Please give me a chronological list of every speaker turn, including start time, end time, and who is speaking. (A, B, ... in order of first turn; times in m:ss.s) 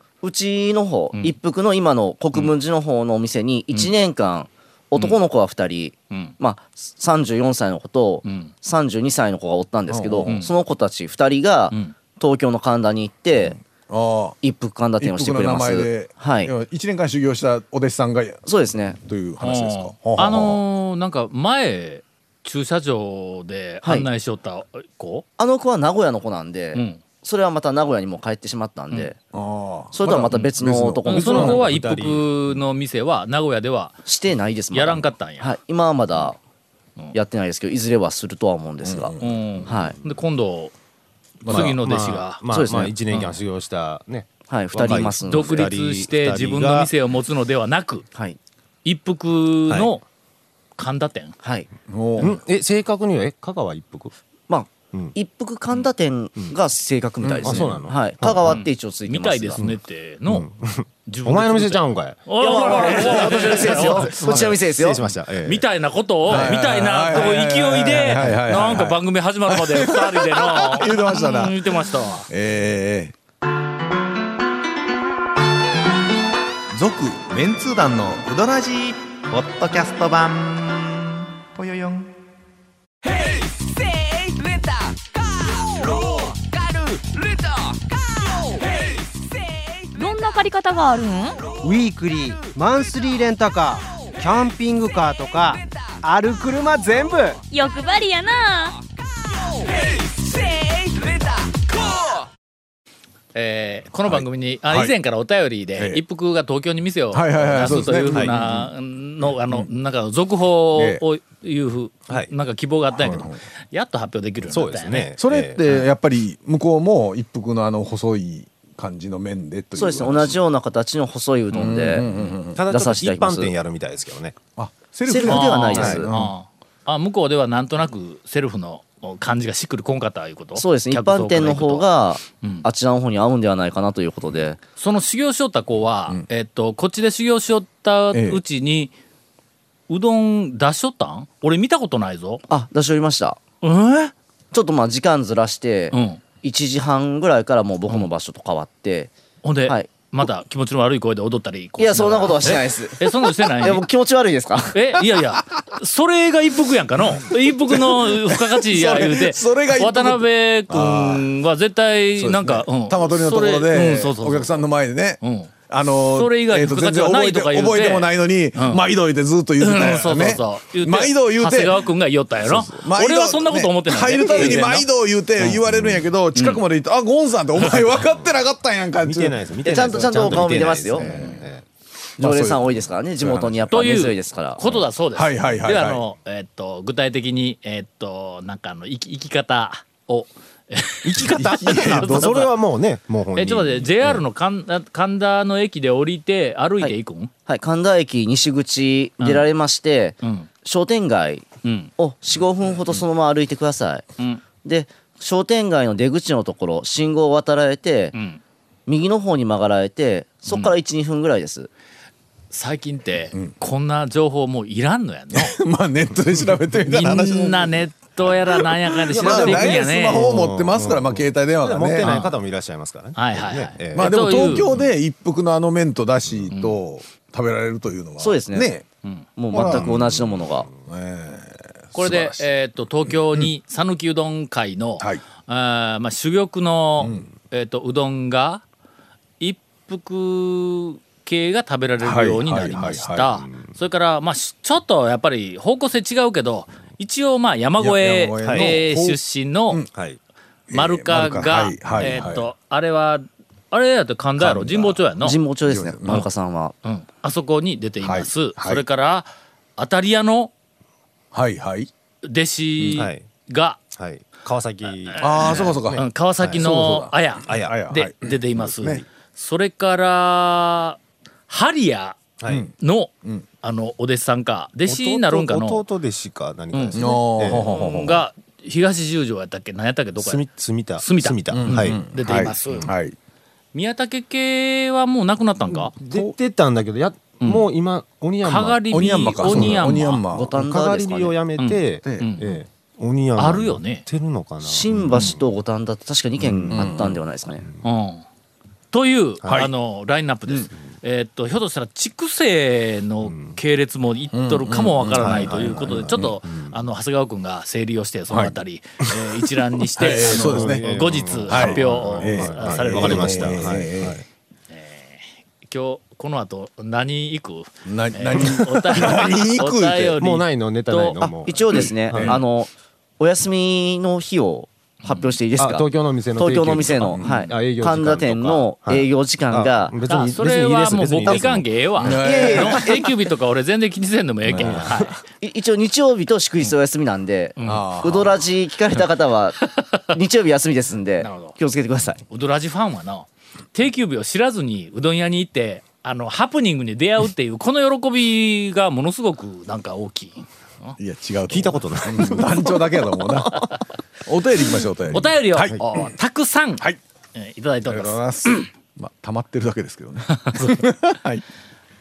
0:00.2-0:13.6 A
0:08.2-0:08.5 B
0:09.9-0:10.4 C
0:10.2-0:10.5 B
0:13.4-0:14.4 C
0:14.4-0:16.5 A
0:15.0-0:18.4 C
0:18.4-0:19.0 A
0:19.0-0:20.6 C
0:19.4-0:25.2 B
0:23.8-0:24.1 A
0:25.4-0:29.2 A
0:26.7-0:27.0 B
0:29.3-0:31.6 C
0:29.9-0:31.6 A
0:31.0-0:34.0 B
0:31.1-0:32.6 D
0:34.0-0:36.4 A
0:34.7-0:35.5 B
0:37.1-0:39.1 A
0:38.8-0:39.4 C
0:39.2-0:40.7 B
0:39.6-0:40.0 A
0:41.4-0:41.8 C
0:41.4-0:42.4 B
0:41.5-0:46.9 D
0:42.5-0:42.9 A
0:43.1-0:43.4 B
0:44.5-0:45.7 A
0:45.3-0:48.0 B
0:48.8-0:50.0 B
0:50.8-0:51.4 B
0:51.4-0:51.7 A
0:51.9-0:52.4 C
0:52.2-0:54.1 D
0:54.5-0:59.6 A
0:57.2-0:57.8 C
0:57.4-0:58.6 D
0:58.4-1:00.5 B
1:00.3-1:05.6 D
1:01.1-1:04.5 B
1:02.4-1:05.0 A
1:05.4-1:12.3 B
1:06.3-1:11.7 C
1:12.3-1:13.1 C
1:16.7-1:22.1 E
1:25.9-1:27.0 E
1:29.9-1:31.4 F
1:31.6-1:37.4 G
1:37.5-1:38.8 F
1:43.3-1:55.1 B
1:44.0-1:44.9 C
1:45.8-1:46.0 C
1:47.1-1:48.6 C
1:48.0-1:48.4 D
1:50.8-1:51.0 C
1:53.0-1:53.4 C
1:54.5-1:55.6 D
1:55.2-2:00.4 C
1:59.8-2:02.0 A
2:01.5-2:02.6 C
2:02.5-2:04.4 D
2:02.7-2:03.5 A
2:04.6-2:06.3 C
2:05.1-2:06.1 A
2:05.2-2:12.6 B
2:05.8-2:06.0 D
2:10.6-2:14.6 A
2:14.8-2:18.9 B
2:18.1-2:18.4 C
2:19.9-2:22.4 B
2:22.5-2:23.4 A
2:23.6-2:24.1 B
2:24.5-2:29.1 A
2:25.9-2:26.2 B
2:29.4-2:33.8 B
2:31.8-2:35.0 A
2:34.7-2:44.6 B
2:37.2-2:41.3 C
2:42.2-2:51.9 C
2:45.2-2:45.5 B
2:46.1-2:48.8 B
2:49.6-2:54.8 B
2:52.4-3:01.3 C
2:55.5-2:56.0 D
2:56.3-2:56.6 B
2:59.0-3:01.6 D
2:59.6-3:01.1 A
3:01.0-3:01.4 B
3:02.2-3:04.1 C
3:02.2-3:04.6 A
3:03.7-3:12.5 B
3:05.1-3:06.0 C
3:11.0-3:14.2 D
3:11.4-3:12.4 C
3:13.3-3:17.3 B
3:17.5-3:24.1 A
3:19.2-3:19.5 B
3:20.2-3:20.5 B
3:21.6-3:21.9 B
3:24.6-3:28.2 A
3:28.1-3:28.4 B
3:28.9-3:31.7 A
3:32.5-3:35.6 B
3:35.3-3:37.8 C
3:36.9-3:40.3 B
3:38.3-3:42.1 C
3:39.1-3:44.8 D
3:42.0-3:42.3 B
3:43.2-3:44.7 B
3:43.9-3:48.8 C
3:46.5-3:46.8 B
3:48.2-3:48.7 A
3:49.4-3:50.7 A
3:49.5-3:50.0 C
3:49.5-3:50.6 D
3:50.8-3:52.5 C
3:51.9-3:58.6 B
3:57.0-3:57.3 C
3:59.4-4:09.8 B
4:02.0-4:03.3 C
4:07.8-4:09.9 C
4:08.4-4:08.8 D
4:09.9-4:10.2 D
4:10.7-4:12.5 C
4:10.7-4:15.4 B
4:11.9-4:12.2 D
4:15.2-4:16.7 A
4:15.6-4:16.2 C
4:16.8-4:20.5 B
4:18.0-4:18.8 C
4:21.3-4:21.9 C
4:22.2-4:23.8 B
4:22.8-4:23.3 D
4:23.9-4:26.7 D
4:25.0-4:32.2 B
4:25.2-4:29.0 C
4:27.4-4:27.7 D
4:32.4-4:32.6 D
4:32.5-4:33.4 C
4:32.8-4:35.8 B
4:34.9-4:37.7 D
4:36.7-4:40.4 B
4:36.9-4:38.2 C
4:40.2-4:42.0 D
4:41.0-4:42.9 B
4:41.5-4:43.1 C
4:43.7-4:45.9 B
4:46.0-4:46.3 C
4:46.0-4:50.0 D
4:48.4-4:50.2 B
4:48.9-4:50.5 C
4:50.3-4:51.4 A
4:50.5-4:55.4 D
4:51.6-4:52.4 B
4:52.0-4:52.3 C
4:53.4-4:54.0 B
4:54.6-4:57.7 A
4:56.4-4:57.2 D
4:56.7-4:57.1 C
4:57.8-4:58.2 B
4:58.9-5:13.7 B
4:59.4-4:59.7 D
5:03.3-5:03.5 D
5:04.3-5:06.3 C
5:05.1-5:06.8 D
5:08.3-5:08.5 C
5:10.0-5:10.8 C
5:10.0-5:14.2 D
5:11.5-5:14.2 C
5:14.7-5:21.2 B
5:17.8-5:20.1 C
5:20.1-5:22.4 D
5:21.2-5:30.0 A
5:21.7-5:22.4 C
5:25.6-5:32.4 D
5:27.1-5:27.4 C
5:30.1-5:35.2 B
5:32.0-5:32.9 C
5:32.1-5:33.1 A
5:34.5-5:34.8 C
5:34.5-5:35.1 D
5:35.4-5:42.2 A
5:37.6-5:37.8 B
5:37.6-5:38.4 C
5:39.6-5:40.0 B
5:41.2-5:41.6 B
5:42.3-5:51.0 B
5:51.0-5:56.1 C
5:51.5-5:52.8 D
5:55.1-5:58.6 B
5:57.8-6:01.4 C
6:00.4-6:00.8 B